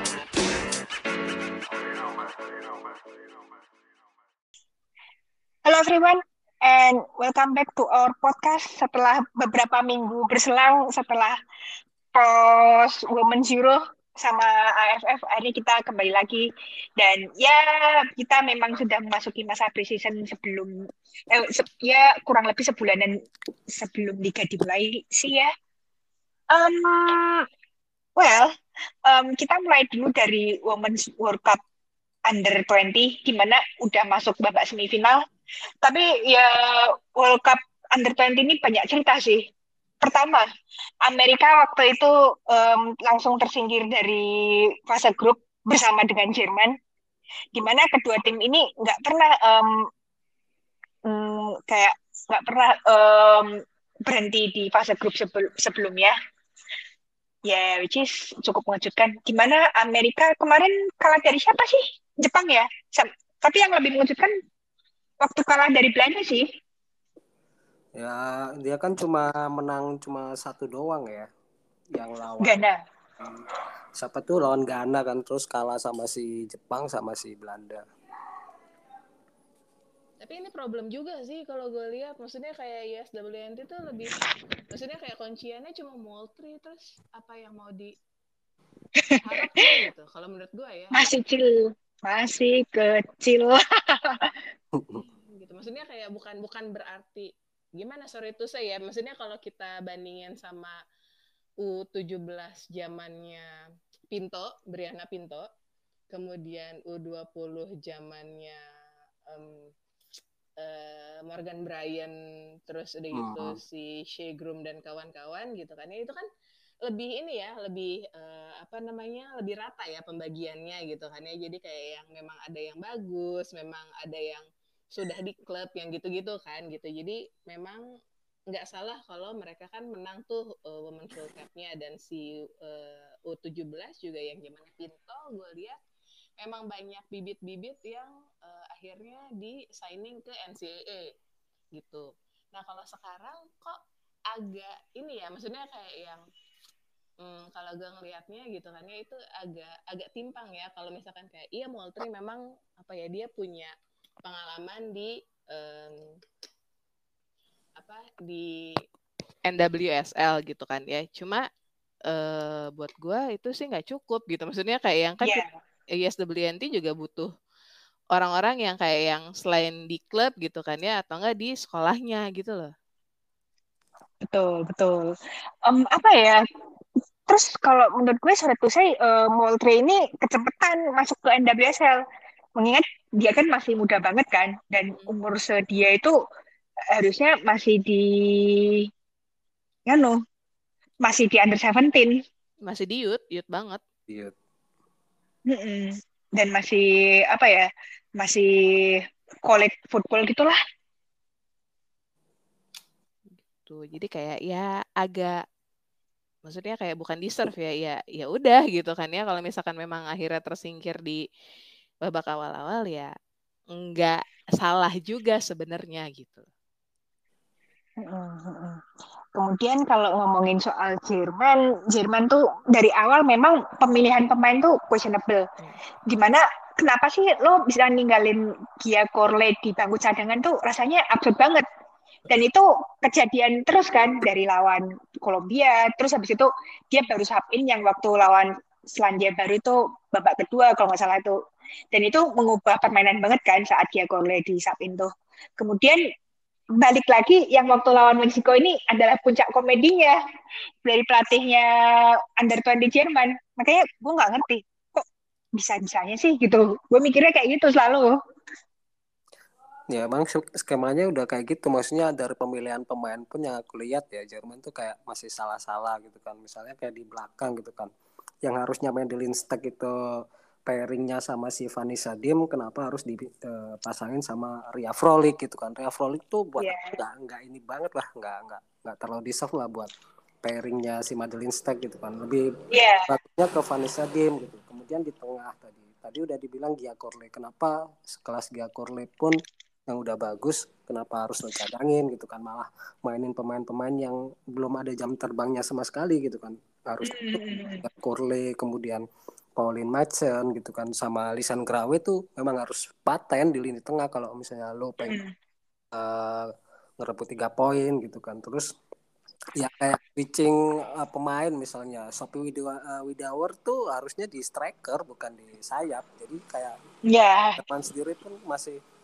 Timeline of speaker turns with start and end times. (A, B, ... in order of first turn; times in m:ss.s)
0:05.6-0:11.4 A
0:12.1-0:25.5 A
0:26.5-0:27.5 A
0:28.2-0:28.5 A
0:29.0-0:31.6 A
0:32.2-0:35.2 A
0:35.8-0:39.5 A
0:40.0-0:40.4 A
0:41.0-0:46.8 A
0:47.5-0:49.9 A
0:51.0-0:56.1 A
0:57.4-1:04.3 A
1:05.2-1:06.5 A
1:08.0-1:11.3 B
1:11.9-1:12.6 B
1:12.4-1:12.8 A
1:14.0-1:17.8 B
1:20.2-1:24.2 C
1:24.7-1:27.9 C
1:29.0-1:29.4 A
1:29.2-1:31.0 C
1:30.9-1:34.3 A
1:34.8-1:35.0 B
1:35.0-1:40.8 C
1:41.6-1:45.5 C
1:46.1-1:48.6 C
1:49.3-1:49.7 C
1:50.6-1:52.2 C
1:52.7-1:56.2 C
1:53.1-1:53.6 B
1:56.8-2:07.8 C
2:08.5-2:15.8 C
2:16.4-2:21.1 C
2:21.7-2:23.8 C
2:24.3-2:26.2 C
2:27.2-2:36.0 C
2:37.8-2:38.7 C
2:39.4-2:41.4 C
2:42.1-2:45.4 C
2:45.2-2:45.5 A
2:45.9-2:47.3 C
2:48.1-2:52.7 C
2:54.2-2:56.4 A
2:57.3-3:02.0 A
3:02.6-3:06.1 A
3:06.9-3:08.9 A
3:09.9-3:10.2 A
3:11.0-3:12.2 A
3:12.6-3:13.8 C
3:14.1-3:14.3 B
3:15.4-3:20.6 A
3:23.5-3:25.4 C
3:26.4-3:31.2 C
3:32.0-3:33.1 C
3:33.7-3:36.5 C
3:38.0-3:38.8 A
3:39.3-3:45.5 A
3:46.1-3:51.6 A
3:52.3-4:01.4 A
4:01.9-4:06.0 A
4:06.8-4:10.1 A
4:10.8-4:15.0 A
4:15.5-4:18.1 A
4:19.9-4:27.9 B
4:28.4-4:29.9 B
4:30.6-4:39.9 B
4:36.6-4:36.9 A
4:40.4-4:42.5 B
4:42.7-4:43.1 A
4:43.1-4:49.4 B
4:49.9-4:59.0 B
4:57.0-4:57.8 A
4:59.6-5:05.2 B
5:05.0-5:05.3 A
5:05.9-5:08.7 B
5:09.6-5:16.8 B
5:17.1-5:17.6 A
5:17.6-5:18.8 B